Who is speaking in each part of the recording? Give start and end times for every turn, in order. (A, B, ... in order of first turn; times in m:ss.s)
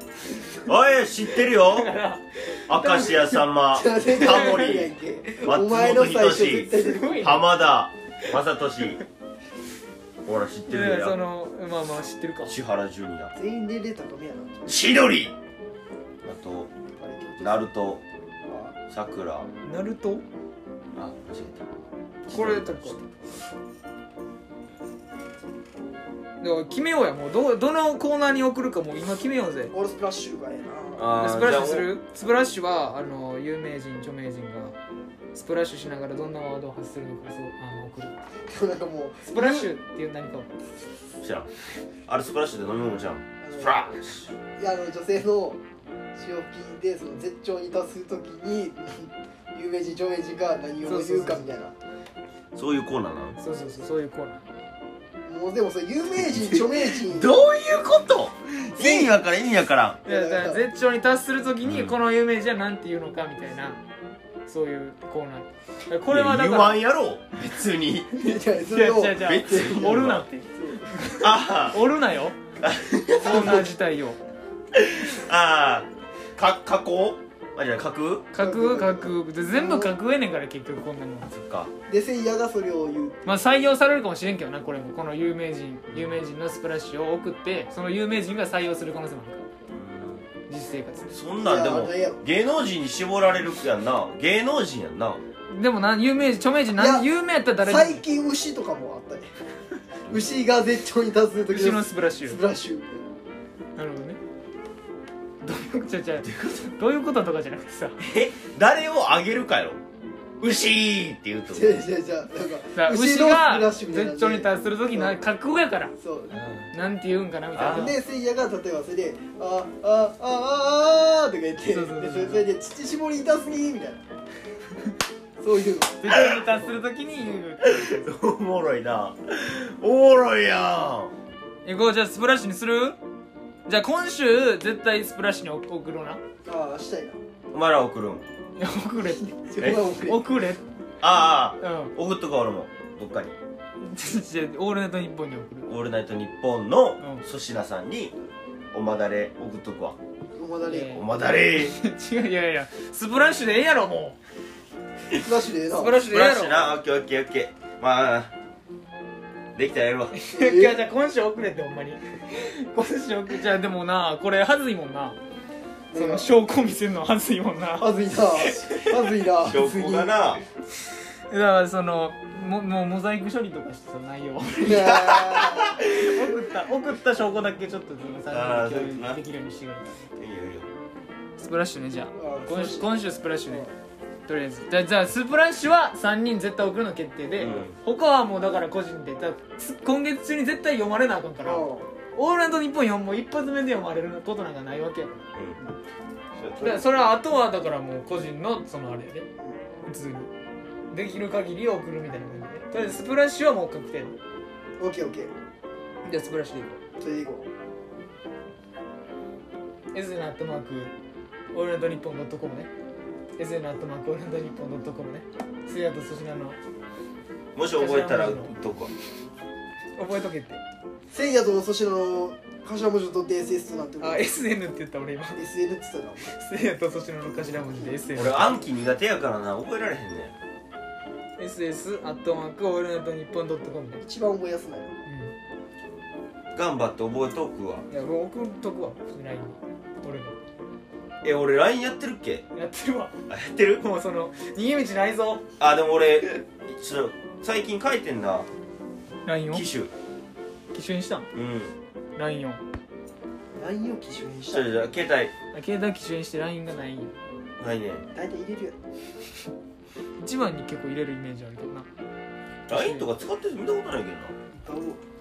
0:00.6-0:01.9 A
0:01.6-0:03.3 B
0:02.7-0:09.0 A
0:03.7-0:07.4 C
0:06.7-0:07.4 B
0:10.2-0:11.2 A
0:10.7-0:12.6 B
0:12.5-0:13.3 A
0:13.3-0:14.8 C
0:14.6-0:15.3 A
0:16.2-0:16.7 A
0:16.9-0:17.7 C
0:17.4-0:18.0 A
0:18.4-0:18.8 C
0:18.9-0:19.5 A
0:19.6-0:20.2 B
0:20.9-0:21.7 A
0:22.3-0:23.0 A
0:22.3-0:23.0 B
0:26.4-0:29.7 B
0:29.7-0:31.1 C
0:31.0-0:31.9 A
0:31.1-0:34.8 B
0:35.3-0:38.1 B
0:38.5-0:39.7 C
0:39.2-0:40.5 B
0:41.2-0:41.5 A
0:42.1-0:44.3 A
0:43.4-0:43.9 C
0:44.6-0:45.6 C
0:46.2-0:51.7 C
0:50.8-0:51.5 B
0:52.5-0:53.4 A
0:53.4-0:54.4 B
0:55.2-0:57.4 C
0:56.2-1:00.0 A
0:58.8-0:59.2 C
1:00.0-1:00.6 C
1:00.0-1:03.8 B
1:01.6-1:01.9 A
1:04.5-1:06.8 B
1:06.0-1:08.2 A
1:08.1-1:11.2 C
1:08.6-1:12.4 B
1:09.2-1:10.2 A
1:11.2-1:11.8 A
1:12.6-1:13.7 A
1:13.2-1:14.2 B
1:13.3-1:13.6 C
1:14.7-1:18.3 A
1:18.3-1:21.3 B
1:18.4-1:19.9 C
1:21.3-1:21.7 A
1:21.9-1:23.4 C
1:23.2-1:29.5 B
1:29.7-1:30.2 A
1:30.5-1:31.1 B
1:31.1-1:35.2 A
1:31.4-1:32.2 C
1:35.5-1:38.0 B
1:36.8-1:37.1 C
1:37.6-1:39.3 C
1:40.1-1:43.1 C
1:41.5-1:42.4 B
1:43.8-1:44.2 B
1:45.4-1:48.0 B
1:46.2-1:46.7 A
1:48.0-1:49.8 A
1:50.4-1:51.8 A
1:51.5-1:55.2 C
1:52.7-1:55.9 B
1:56.0-1:56.4 C
1:56.3-1:56.7 A
1:56.7-1:58.0 B
1:57.5-1:57.9 A
1:57.6-2:04.0 C
2:01.7-2:02.5 B
2:05.4-2:06.7 C
2:06.0-2:08.1 B
2:07.6-2:11.1 A
2:11.6-2:13.0 B
2:13.6-2:16.2 B
2:16.4-2:17.2 C
2:17.5-2:18.2 A
2:18.6-2:20.6 B
2:19.1-2:20.4 C
2:19.6-2:19.9 A
2:21.0-2:23.4 A
2:21.6-2:21.9 B
2:23.8-2:25.7 B
2:25.6-2:28.1 A
2:28.7-2:30.0 A
2:30.3-2:31.0 C
2:30.7-2:34.2 B
2:30.8-2:31.8 A
2:35.1-2:36.0 C
2:35.7-2:36.8 B
2:36.0-2:38.3 A
2:39.5-2:40.1 A
2:40.1-2:45.2 B
2:40.3-2:40.8 C
2:45.9-2:46.3 C
2:45.9-2:48.9 B
2:47.8-2:50.1 C
2:49.4-2:50.4 A
2:51.3-2:55.1 B
2:54.5-2:55.8 C
2:54.7-2:55.9 A
2:55.8-3:00.0 B
2:58.3-2:59.2 A
3:00.2-3:00.7 A
3:01.4-3:03.7 B
3:02.1-3:03.7 C
3:04.3-3:15.3 B
3:07.4-3:07.7 A
3:11.4-3:11.9 C
3:16.4-3:16.8 A
3:16.6-3:19.3 B
3:19.9-3:20.3 B
3:20.9-3:24.2 B
3:24.8-3:25.3 C
3:26.0-3:26.8 B
3:27.0-3:27.5 C
3:29.9-3:30.9 B
3:31.5-3:32.7 B
3:33.4-3:36.6 B
3:37.5-3:38.9 A
3:37.8-3:38.5 B
3:40.0-3:40.6 B
3:41.1-3:44.2 C
3:44.0-3:45.4 B
3:45.4-3:46.4 C
3:46.3-3:48.6 B
3:47.3-3:48.2 C
3:48.2-3:50.3 A
3:51.4-3:54.0 B
3:54.0-3:55.0 C
3:55.0-3:55.3 B
3:56.5-3:57.9 A
3:57.9-4:00.4 B
4:01.2-4:02.4 A
4:02.5-4:03.1 B
4:03.3-4:03.8 A
4:03.8-4:05.4 B
4:05.6-4:08.5 A
4:09.2-4:09.6 B
4:09.5-4:09.9 A
4:10.7-4:11.3 B
4:11.3-4:11.7 A
4:12.2-4:12.6 B
4:13.6-4:14.8 C
4:14.5-4:15.3 A
4:15.5-4:17.2 B
4:17.6-4:18.0 A
4:18.1-4:18.8 C
4:20.2-4:21.9 B
4:22.7-4:24.3 A
4:22.7-4:23.1 B
4:24.5-4:25.0 C